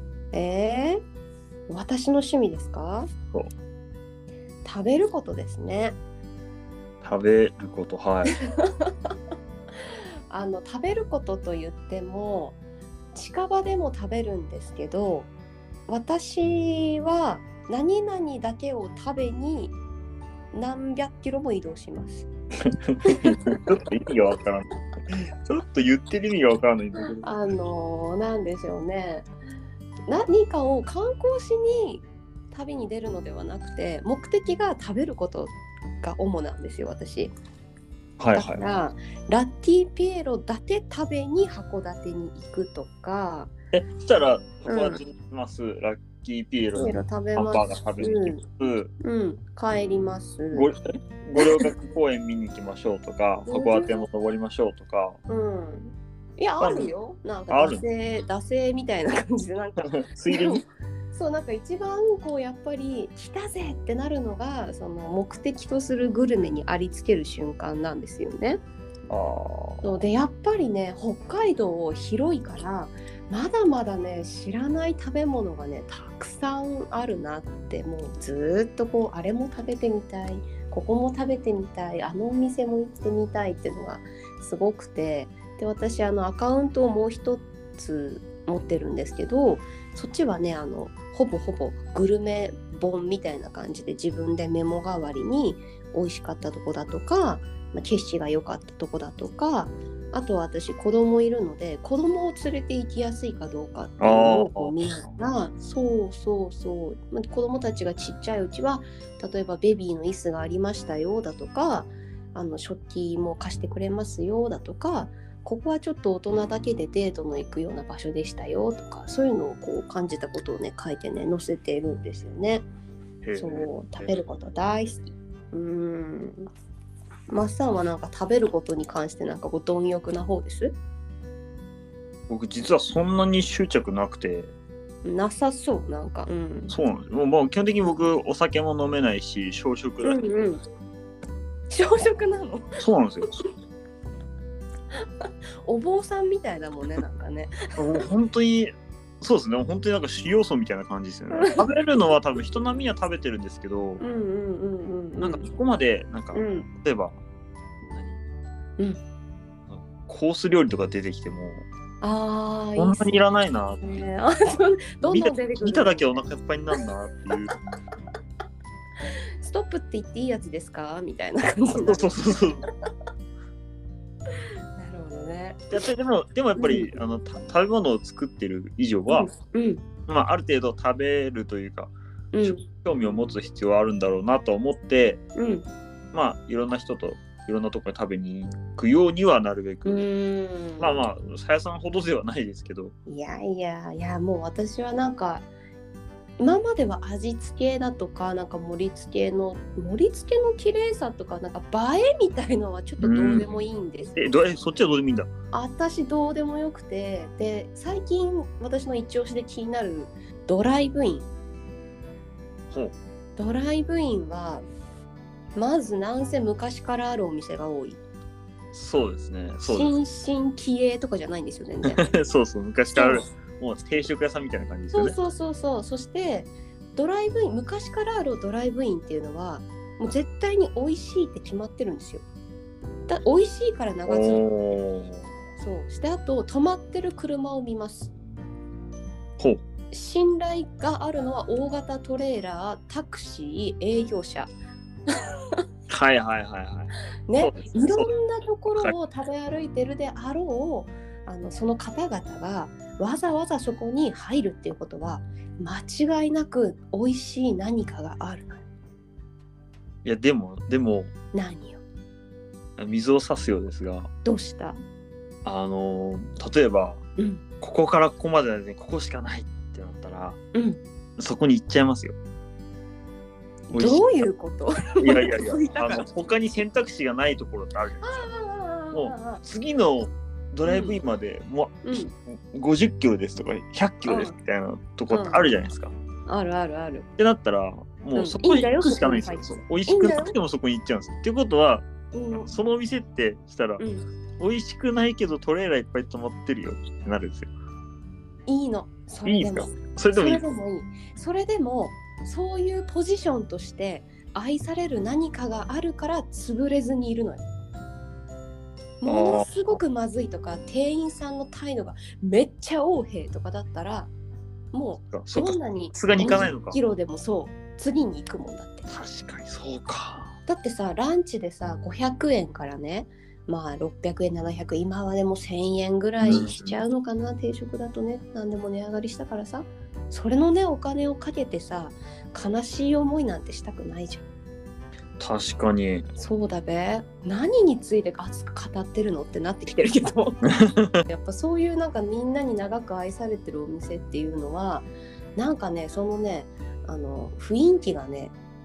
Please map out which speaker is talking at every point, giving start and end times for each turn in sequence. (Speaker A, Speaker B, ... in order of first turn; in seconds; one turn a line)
Speaker A: 0.3-1.0
Speaker A: 1.7-3.1
Speaker A: 4.6-6.0
Speaker B: 7.0-8.3
Speaker A: 8.6-9.1
Speaker A: 10.3-12.6
Speaker A: 13.1-15.3
Speaker A: 15.9-19.8
Speaker A: 20.5-22.3
Speaker B: 22.8-24.7
Speaker A: 23.1-23.7
Speaker B: 25.5-27.3
Speaker A: 27.2-29.3
Speaker A: 30.1-37.3
Speaker B: 38.2-38.6
Speaker A: 38.3-43.5
Speaker B: 43.7-48.9
Speaker A: 44.6-45.0
Speaker A: 46.8-48.4
Speaker A: 49.0-50.7
Speaker B: 50.5-55.2
Speaker A: 51.4-51.7
Speaker A: 53.4-54.1
Speaker A: 55.3-68.6
Speaker B: 56.6-56.9
Speaker B: 57.5-57.8
Speaker B: 59.8-60.6
Speaker B: 69.1-69.9
Speaker A: 69.8-122.7
Speaker B: 104.0-104.7
Speaker B: 123.2-123.7
Speaker A: 123.4-126.5
Speaker A: 127.3-130.8
Speaker B: 132.3-134.5
Speaker A: 135.0-136.8
Speaker B: 136.7-140.2
Speaker A: 140.0-140.6
Speaker A: 141.7-142.7
Speaker B: 142.8-143.4
Speaker A: 145.2-148.1
Speaker B: 147.8-154.0
Speaker A: 151.3-151.7
Speaker A: 154.0-155.5
Speaker B: 155.2-157.2
Speaker A: 156.3-156.7
Speaker B: 157.8-158.2
Speaker B: 159.7-161.7
Speaker A: 162.0-163.2
Speaker B: 162.8-164.0
Speaker A: 163.8-166.8
Speaker B: 165.0-167.5
Speaker A: 169.4-172.4
Speaker B: 171.8-172.6
Speaker A: 174.8-175.7
Speaker B: 175.7-179.3
Speaker A: 176.6-176.9
Speaker A: 179.1-179.8
Speaker B: 180.1-185.2
Speaker A: 182.3-182.7
Speaker A: 185.4-185.7
Speaker B: 186.1-190.1
Speaker A: 189.8-191.1
Speaker B: 190.8-192.9
Speaker A: 193.1-195.5
Speaker A: 196.4-204.2
Speaker B: 203.0-203.6
Speaker B: 204.2-205.3
Speaker A: 205.5-211.3
Speaker B: 212.7-213.0
Speaker A: 213.4-214.7
Speaker A: 215.6-218.0
Speaker B: 218.7-219.9
Speaker A: 219.7-222.0
Speaker B: 221.9-225.2
Speaker A: 222.9-223.3
Speaker A: 224.9-232.2
Speaker A: 233.1-234.4
Speaker B: 234.1-235.3
Speaker A: 235.6-238.1
Speaker A: 239.9-244.5
Speaker B: 245.9-248.1
Speaker A: 247.3-258.6
Speaker B: 260.0-261.1
Speaker A: 261.3-261.8
Speaker B: 262.8-264.1
Speaker A: 264.2-264.8
Speaker B: 265.4-267.0
Speaker A: 267.2-267.4
Speaker B: 267.6-270.4
Speaker A: 270.5-270.8
Speaker B: 271.2-272.2
Speaker A: 273.7-276.1
Speaker B: 273.7-274.3
Speaker B: 275.0-278.3
Speaker A: 278.0-279.4
Speaker B: 278.9-285.9
Speaker A: 280.6-281.0
Speaker A: 281.8-282.1
Speaker A: 284.1-284.4
Speaker A: 285.1-285.5
Speaker A: 286.3-287.1
Speaker B: 287.2-293.9
Speaker A: 288.2-290.4
Speaker A: 292.1-292.6
Speaker A: 293.8-294.1
Speaker B: 294.4-297.5
Speaker A: 298.5-307.5
Speaker B: 299.2-300.4
Speaker A: 309.0-314.1
Speaker B: 309.1-309.8
Speaker A: 314.7-318.9
Speaker B: 315.1-316.8
Speaker B: 318.9-320.3
Speaker A: 320.5-334.2
Speaker B: 326.2-326.8
Speaker B: 335.2-336.1
Speaker A: 336.2-340.5
Speaker B: 340.5-341.0
Speaker A: 341.1-348.4